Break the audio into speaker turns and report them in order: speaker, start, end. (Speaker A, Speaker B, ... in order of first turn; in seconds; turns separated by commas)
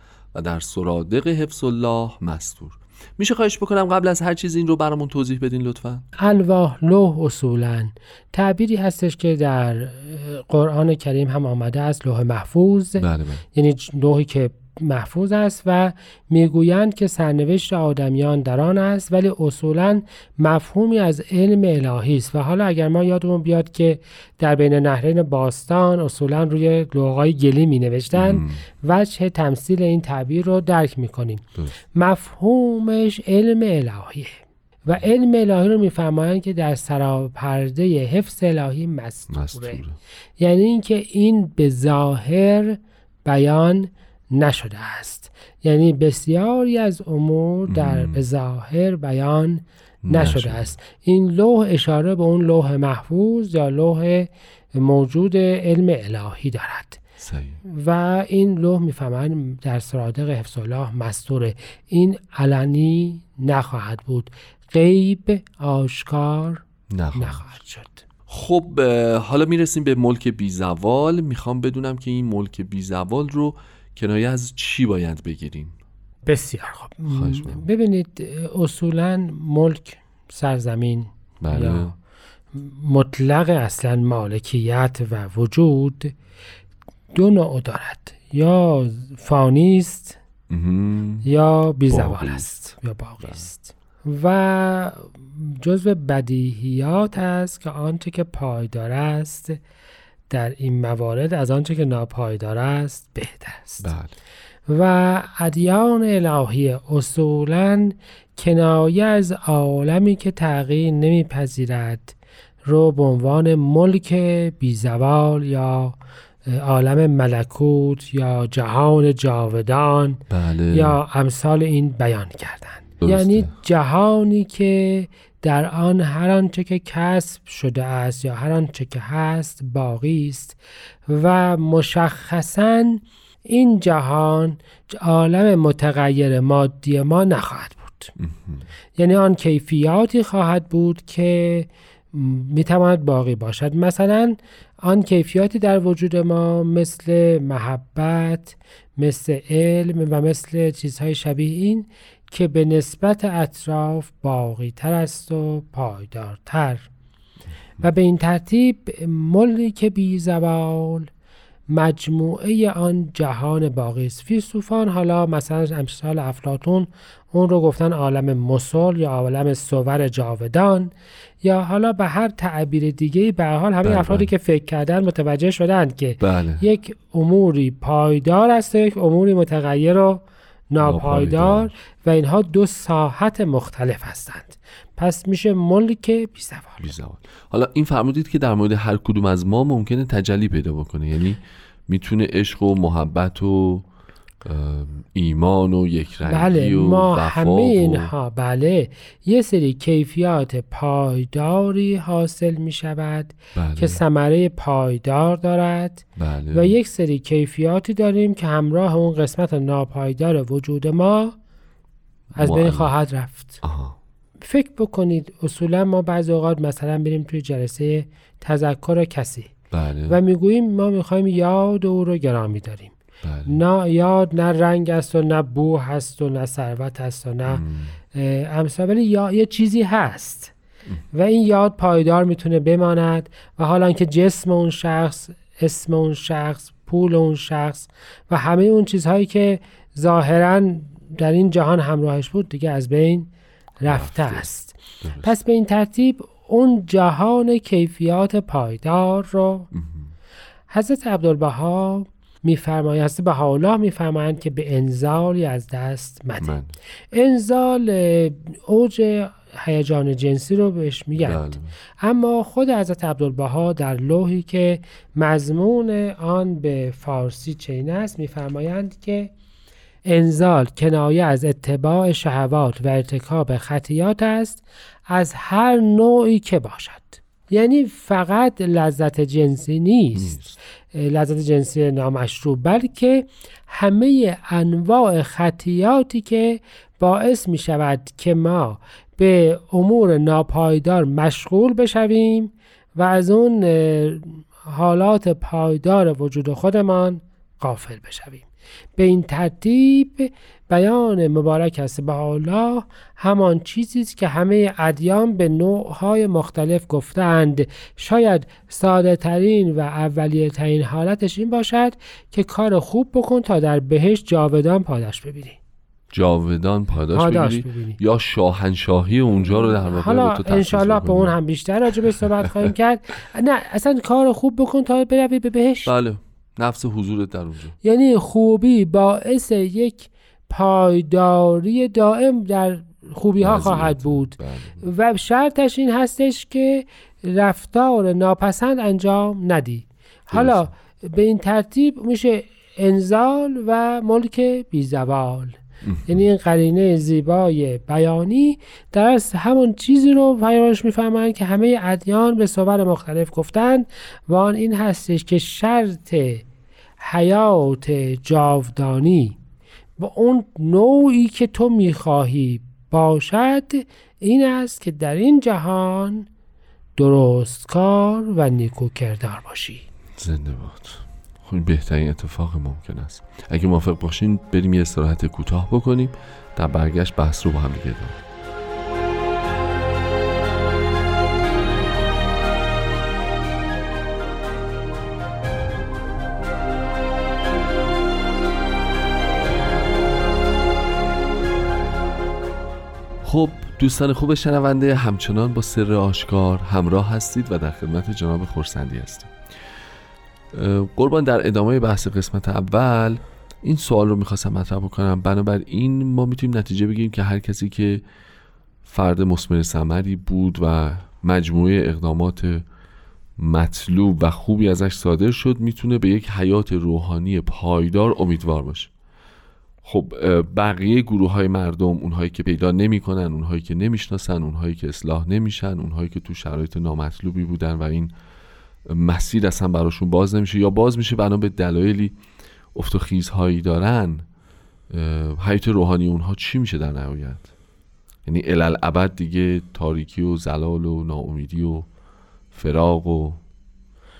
Speaker A: 0.3-6.0, Speaker B: 6.2-39.8, Speaker A: 13.0-13.4, Speaker A: 28.1-28.6, Speaker A: 39.3-40.0, Speaker B: 40.4-57.0, Speaker A: 47.7-48.2, Speaker A: 50.0-50.7, Speaker A: 57.2-57.6, Speaker B: 57.7-66.6, Speaker A: 66.9-67.4, Speaker B: 67.1-68.0, Speaker A: 68.3-75.7, Speaker B: 76.2-81.9, Speaker A: 77.1-77.6, Speaker A: 81.4-81.9, Speaker B: 82.5-86.1, Speaker B: 87.1-90.2, Speaker A: 90.5-91.3, Speaker B: 91.2-99.6, Speaker A: 91.9-92.6, Speaker B: 100.3-103.9, Speaker A: 103.8-104.2, Speaker B: 104.7-112.1, Speaker B: 112.7-120.2, Speaker A: 120.3-121.0, Speaker B: 120.7-130.6, Speaker A: 123.0-123.5, Speaker B: 131.1-138.1, Speaker A: 138.2-138.6, Speaker B: 139.0-156.9, Speaker B: 157.8-161.1, Speaker B: 161.7-186.9, Speaker A: 173.8-174.3, Speaker A: 176.2-176.6, Speaker A: 180.8-181.7, Speaker A: 186.8-193.8, Speaker A: 194.4-198.1, Speaker B: 196.3-211.3, Speaker A: 203.5-204.0, Speaker A: 206.2-206.7, Speaker A: 212.3-212.9, Speaker B: 212.3-213.6, Speaker A: 213.6-213.9, Speaker B: 214.4-219.5, Speaker A: 219.7-220.2, Speaker B: 220.1-222.9, Speaker A: 223.2-223.6, Speaker B: 223.5-227.6, Speaker A: 227.4-227.9, Speaker B: 228.1-230.5, Speaker B: 231.1-243.3, Speaker B: 243.8-249.7, Speaker A: 243.8-244.4, Speaker A: 245.0-245.3, Speaker A: 249.7-250.1, Speaker B: 250.7-256.6, Speaker A: 256.4-256.7, Speaker B: 257.1-269.3, Speaker A: 261.2-261.7, Speaker B: 270.1-280.4, Speaker A: 280.1-280.6, Speaker B: 280.9-298.4, Speaker B: 299.0-315.6, Speaker A: 316.1-321.4, Speaker B: 317.1-318.0, Speaker B: 319.3-325.9, Speaker A: 325.9-327.8, Speaker B: 327.8-356.4, Speaker A: 333.4-334.8, Speaker A: 340.3-340.7, Speaker A: 345.8-346.2, Speaker B: 357.0-359.4, Speaker B: 360.0-366.3, Speaker B: 367.0-369.8, Speaker A: 370.2-378.2, Speaker A: 393.2-399.3, Speaker A: 400.5-408.0, Speaker A: 408.8-412.6, Speaker A: 413.4-418.9, Speaker A: 419.8-428.1, Speaker A: 428.9-432.1, Speaker A: 432.7-434.3, Speaker A: 434.9-437.5, Speaker A: 438.2-441.9, Speaker A: 442.5-443.4